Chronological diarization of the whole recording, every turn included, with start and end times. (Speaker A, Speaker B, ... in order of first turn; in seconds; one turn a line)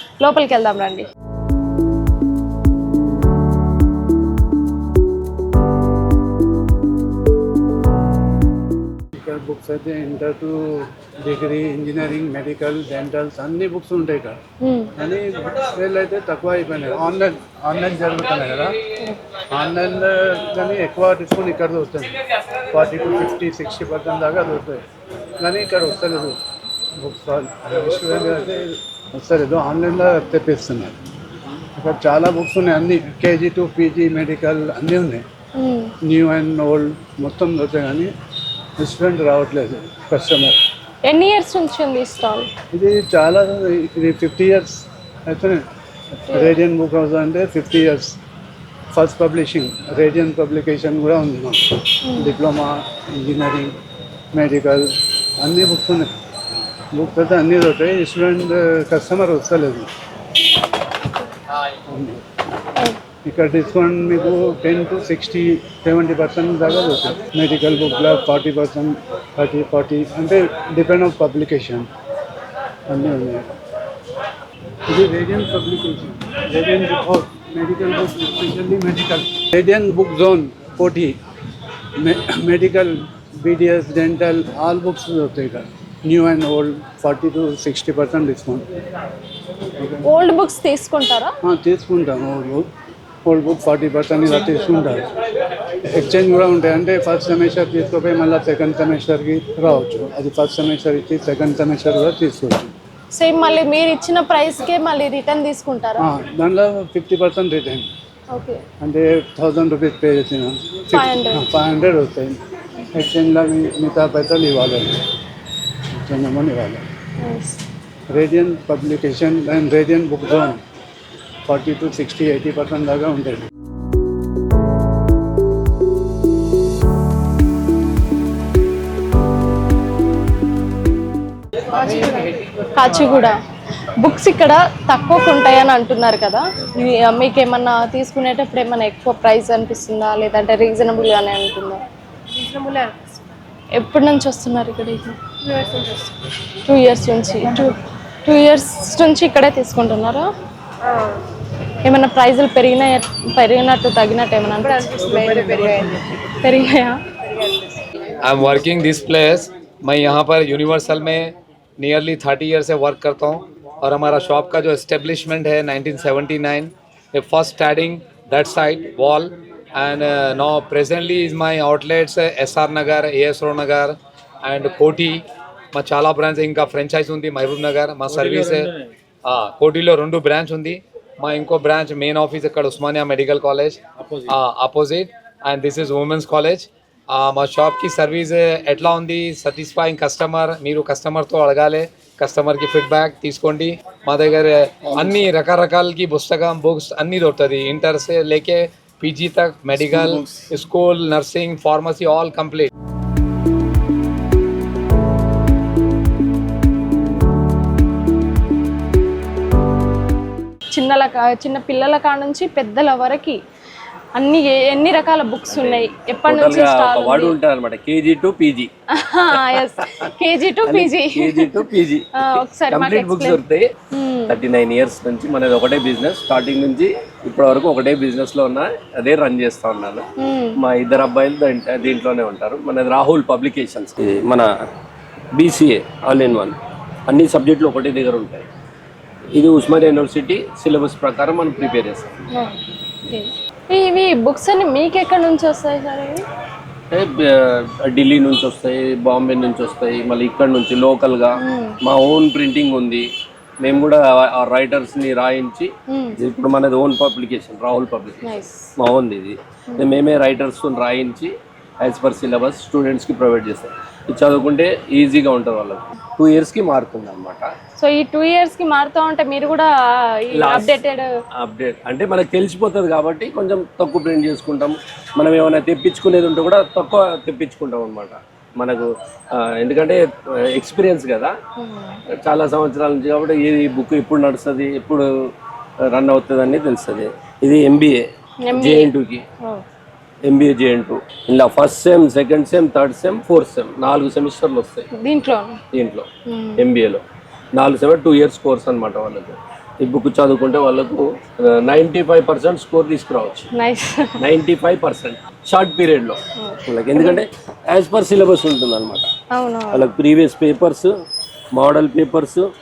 Speaker A: 0.2-1.1
Speaker B: 9.2-14.4
Speaker A: 14.6-14.9
Speaker B: 15.0-18.7
Speaker B: 19.5-22.1
Speaker B: 22.7-24.8
Speaker B: 25.4-26.4
Speaker B: 27.0-30.9
Speaker B: 31.8-35.2
Speaker A: 35.6-35.9
Speaker B: 36.0-38.1
Speaker B: 38.8-40.6
Speaker A: 41.0-42.5
Speaker B: 42.7-45.6
Speaker A: 46.3-46.6
Speaker B: 46.3-48.2
Speaker B: 48.9-53.8
Speaker A: 52.0-52.4
Speaker B: 54.3-54.9
Speaker B: 55.4-56.1
Speaker B: 56.9-59.9
Speaker B: 61.9-62.2
Speaker B: 63.2-71.9
Speaker B: 72.9-73.5
Speaker B: 74.9-81.2
Speaker B: 82.0-88.7
Speaker B: 89.8-90.0
Speaker A: 90.0-91.3
Speaker B: 91.4-92.7
Speaker B: 93.2-95.1
Speaker B: 95.9-102.7
Speaker A: 103.1-106.0
Speaker B: 106.0-107.9
Speaker A: 108.3-108.6
Speaker B: 108.8-112.4
Speaker A: 110.9-111.5
Speaker B: 112.9-115.0
Speaker B: 116.0-116.8
Speaker A: 117.2-117.6
Speaker B: 118.1-120.6
Speaker B: 121.5-123.5
Speaker A: 131.8-133.3
Speaker A: 134.0-141.8
Speaker A: 142.4-142.9
Speaker A: 143.8-146.1
Speaker A: 146.6-150.3
Speaker A: 151.8-157.4
Speaker C: 158.2-202.7
Speaker A: 210.7-213.4
Speaker A: 214.1-217.3
Speaker D: 215.5-218.7
Speaker A: 218.9-221.6
Speaker D: 220.7-223.7
Speaker A: 222.2-223.4
Speaker A: 223.9-224.4
Speaker D: 224.3-230.0
Speaker A: 230.2-230.6
Speaker D: 230.6-234.5
Speaker D: 235.3-236.6
Speaker D: 237.1-238.4
Speaker D: 239.4-242.2
Speaker A: 242.3-246.2
Speaker D: 246.9-253.1
Speaker A: 251.4-251.8
Speaker D: 253.6-267.5
Speaker A: 255.9-256.2
Speaker A: 258.2-258.7
Speaker A: 267.8-271.1
Speaker D: 270.4-270.8
Speaker D: 271.4-281.3
Speaker A: 281.6-282.0
Speaker D: 282.2-285.1
Speaker D: 285.9-288.0
Speaker A: 288.4-288.9
Speaker D: 288.6-289.2
Speaker D: 290.3-294.9
Speaker A: 294.9-295.6
Speaker D: 295.7-296.1
Speaker A: 296.2-296.6
Speaker D: 296.6-297.0
Speaker D: 297.5-303.5
Speaker A: 303.5-304.1
Speaker D: 304.2-309.1
Speaker A: 306.4-307.2
Speaker A: 309.3-309.9
Speaker D: 309.7-310.9
Speaker D: 311.6-312.4